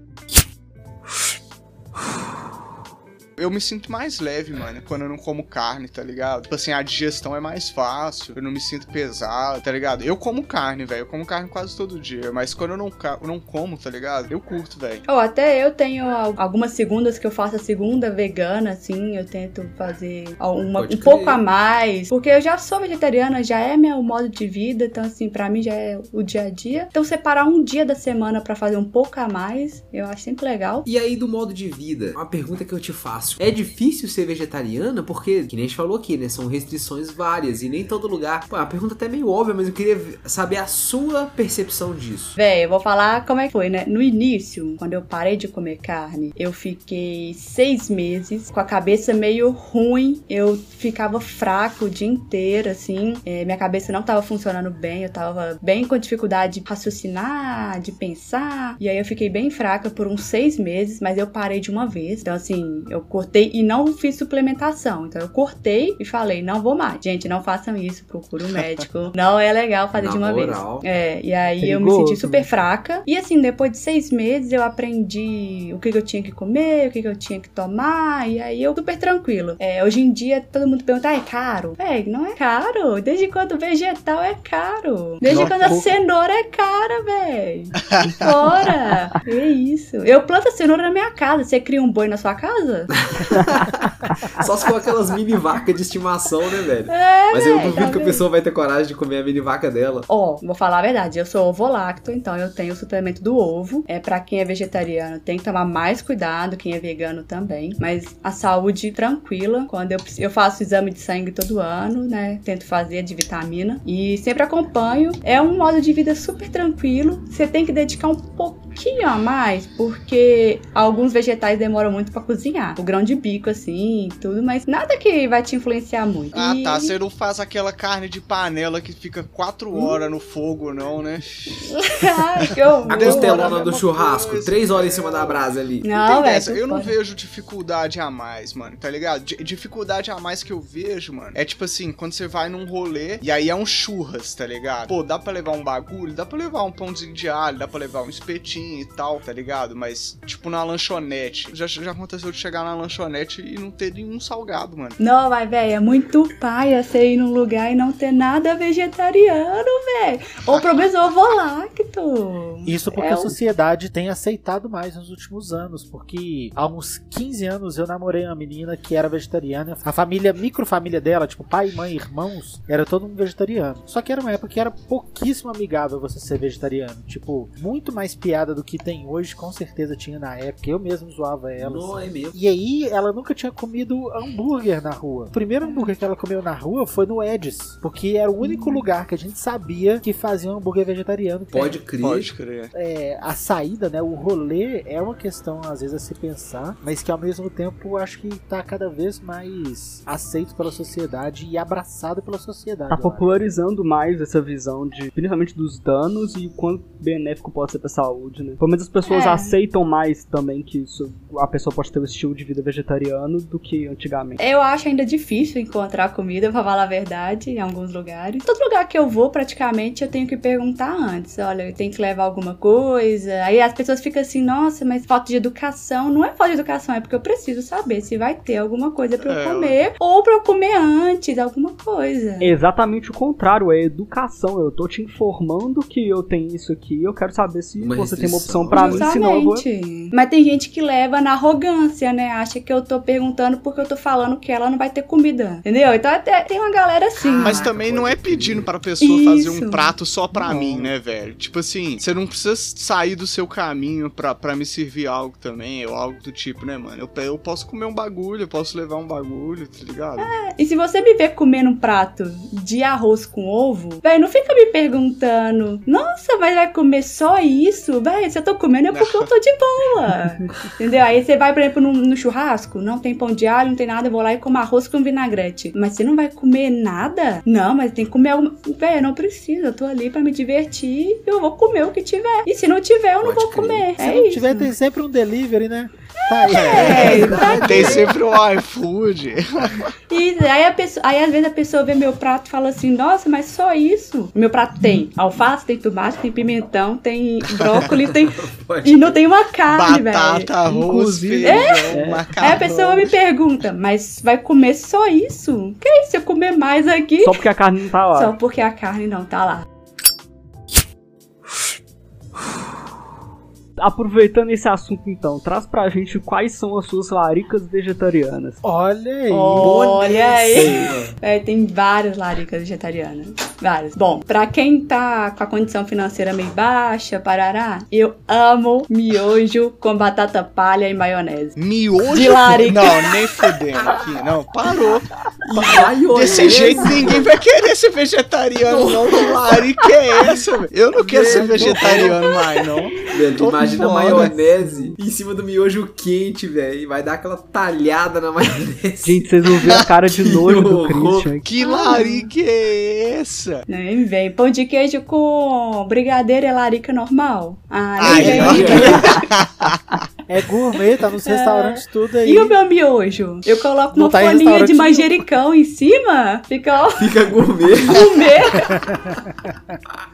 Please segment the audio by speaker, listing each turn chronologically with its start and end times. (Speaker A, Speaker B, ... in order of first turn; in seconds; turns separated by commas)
Speaker A: 3.4-15.0, Speaker B: 15.1-30.8, Speaker C: 20.8-21.4, Speaker C: 30.8-42.4, Speaker B: 42.4-92.9, Speaker C: 69.9-70.8, Speaker D: 71.5-72.5, Speaker D: 85.2-85.9, Speaker A: 85.3-85.6, Speaker A: 87.9-88.5, Speaker C: 93.0-100.1, Speaker B: 96.9-98.2, Speaker B: 100.1-126.9, Speaker A: 126.3-132.0, Speaker B: 129.7-130.0, Speaker B: 131.8-133.6, Speaker C: 132.9-135.8, Speaker A: 132.9-135.4, Speaker B: 135.8-136.9, Speaker A: 135.9-155.0, Speaker B: 155.0-163.3, Speaker A: 160.5-160.8, Speaker E: 162.6-191.8, Speaker C: 181.6-182.3, Speaker B: 185.6-185.9, Speaker B: 188.4-188.8, Speaker C: 191.5-192.3, Speaker A: 192.0-192.7, Speaker E: 192.7-203.4, Speaker D: 202.9-214.4, Speaker B: 209.1-209.5, Speaker B: 214.4-232.5, Speaker A: 229.2-229.8, Speaker D: 232.4-239.6, Speaker C: 237.8-239.2, Speaker B: 238.7-247.7, Speaker C: 247.3-248.7, Speaker A: 247.4-260.3, Speaker B: 249.0-249.9, Speaker E: 250.5-250.9, Speaker B: 260.2-284.7, Speaker A: 268.9-269.3, Speaker C: 283.2-283.9, Speaker E: 284.0-287.5, Speaker B: 286.2-288.1, Speaker A: 286.5-289.9, Speaker C: 286.8-288.2, Speaker B: 290.1-300.5, Speaker C: 297.6-299.2, Speaker A: 299.7-303.0, Speaker D: 300.6-302.8, Speaker B: 301.4-307.5, Speaker D: 307.2-308.3, Speaker B: 308.1-309.6, Speaker D: 313.8-318.6, Speaker E: 318.6-319.8, Speaker B: 319.3-331.6, Speaker C: 319.5-321.1, Speaker D: 320.5-320.9, Speaker A: 331.6-335.1, Speaker B: 332.1-333.1, Speaker C: 333.7-334.3, Speaker C: 335.4-337.3, Speaker A: 336.1-344.3, Speaker C: 338.6-339.8, Speaker C: 340.9-342.2, Speaker D: 341.6-342.0, Speaker C: 343.0-351.3, Speaker D: 344.1-344.9, Speaker D: 349.0-351.5, Speaker A: 351.4-353.6, Speaker B: 351.6-352.3, Speaker B: 353.7-359.2, Speaker A: 358.0-360.0, Speaker E: 358.1-359.0, Speaker C: 358.1-359.1, Speaker E: 360.3-362.6, Speaker B: 361.2-367.2, Speaker E: 363.9-365.2, Speaker C: 367.0-368.3, Speaker B: 367.8-368.8, Speaker E: 368.6-369.8